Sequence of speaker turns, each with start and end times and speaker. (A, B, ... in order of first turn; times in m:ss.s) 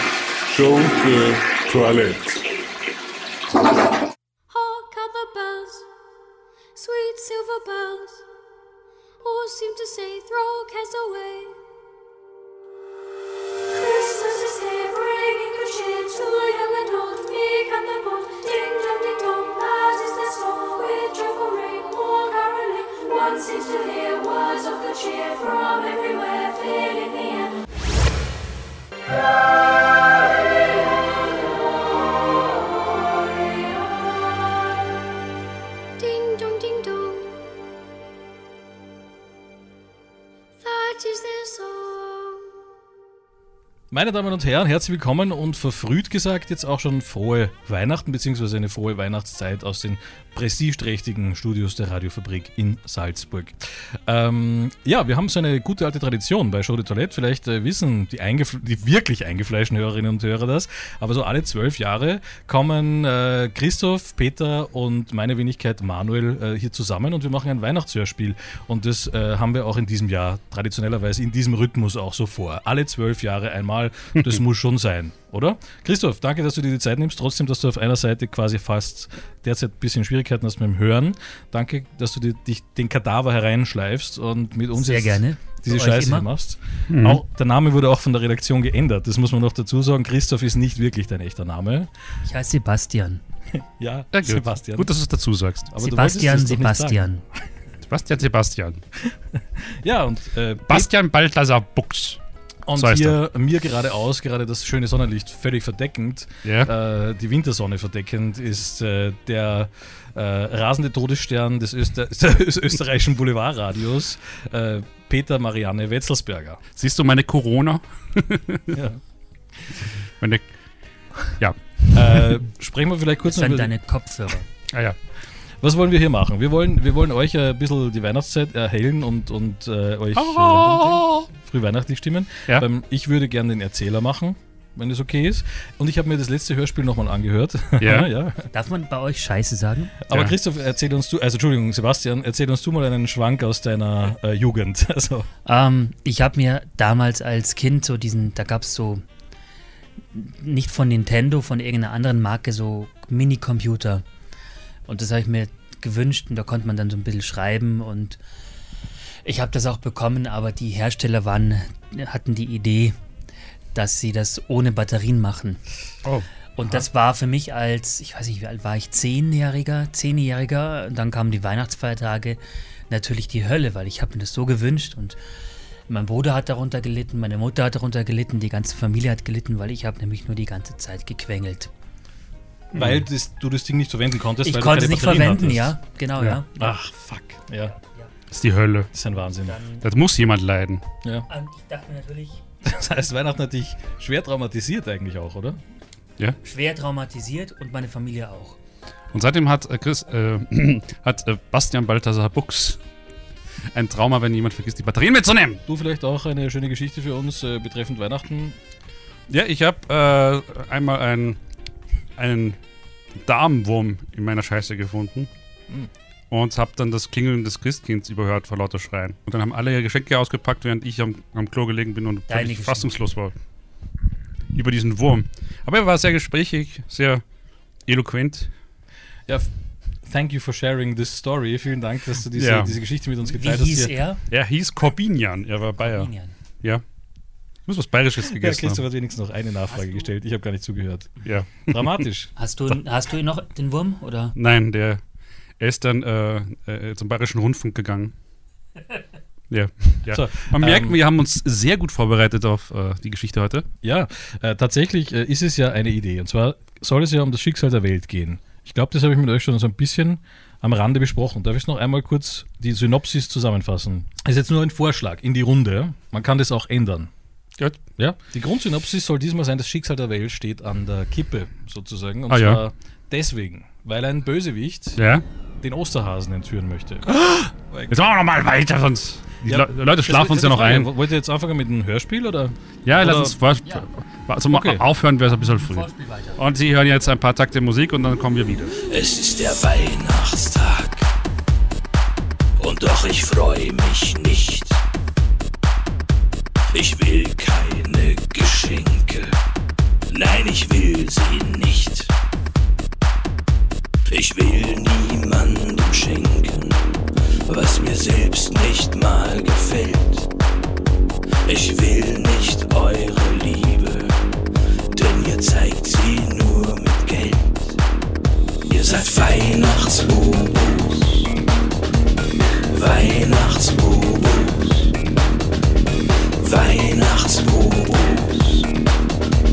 0:00.5-0:02.5 A
0:04.5-0:05.9 B
0:06.8-0:08.2 B
0:09.2-0:11.6 B
0:13.7-0:27.6 B
0:30.6-0:31.5 B
0:32.3-0:34.0 B
0:36.0-0:37.4 B
0:40.6-0:42.5 B
0:43.9-1:31.9 C
1:24.8-1:26.3 D
1:26.9-1:27.2 E
1:32.2-1:33.2 D
1:33.6-1:34.9 C
1:34.1-1:35.7 E
1:35.7-1:37.1 C
1:35.8-1:37.2 D
1:37.9-1:38.8 E
1:39.1-1:40.9 C
1:40.7-1:42.2 E
1:42.7-1:56.6 C
1:42.8-1:43.2 E
1:46.4-1:46.7 E
1:56.8-1:58.6 E
1:58.7-1:59.0 C
2:00.2-2:00.5 E
2:01.2-2:02.4 E
2:01.9-2:03.7 C
2:03.3-2:04.5 D
2:05.6-2:18.5 C
2:10.2-2:11.3 E
2:17.8-2:18.1 E
2:18.5-2:20.0 D
2:20.0-2:25.3 C
2:25.5-2:29.0 D
2:30.1-2:34.0 D
2:34.9-2:38.2 D
2:39.2-2:43.0 D
2:43.7-2:45.6 D
2:46.0-2:46.8 E
2:46.6-2:55.2 D
2:55.9-3:01.7 D
3:02.7-3:03.0 E
3:02.8-3:05.8 C
3:04.4-3:06.5 D
3:06.6-3:07.7 C
3:07.8-3:08.1 D
3:08.3-3:08.9 E
3:08.9-3:09.6 C
3:09.4-3:09.8 D
3:09.8-3:10.8 E
3:11.3-3:12.4 D
3:12.6-3:15.6 C
3:16.4-3:18.6 D
3:19.1-3:22.8 E
3:23.7-3:25.6 E
3:25.7-3:28.6 C
3:29.3-3:31.4 E
3:32.2-3:32.6 E
3:33.2-3:35.3 E
3:36.3-3:43.4 E
3:42.3-3:42.9 D
3:44.5-3:47.2 E
3:47.8-3:48.5 E
3:49.3-3:53.9 C
3:52.4-3:52.7 E
3:53.3-3:54.2 D
3:54.3-3:56.8 E
3:56.0-3:56.4 D
3:57.7-3:58.8 E
3:58.3-4:02.3 C
3:59.7-4:00.1 D
4:01.2-4:02.0 E
4:02.4-4:04.4 D
4:04.4-4:05.0 E
4:05.6-4:08.1 E
4:09.5-4:13.7 E
4:10.1-4:11.0 C
4:13.8-4:27.1 C
4:28.0-4:35.0 C
4:32.3-4:32.6 E
4:35.0-4:35.2 E
4:35.6-4:37.1 C
4:37.1-4:40.9 E
4:37.7-4:38.0 C
4:39.4-4:43.4 C
4:42.9-4:48.8 E
4:44.5-4:44.8 C
4:45.6-4:46.4 D
4:48.9-4:51.1 F
4:52.6-4:54.8 F
4:56.7-4:59.4 F
5:00.1-5:02.1 F
5:04.1-5:10.3 F
5:11.5-5:14.2 F
5:14.9-5:17.8 F
5:18.7-5:21.3 F
5:22.7-5:24.9 F
5:26.4-5:28.7 F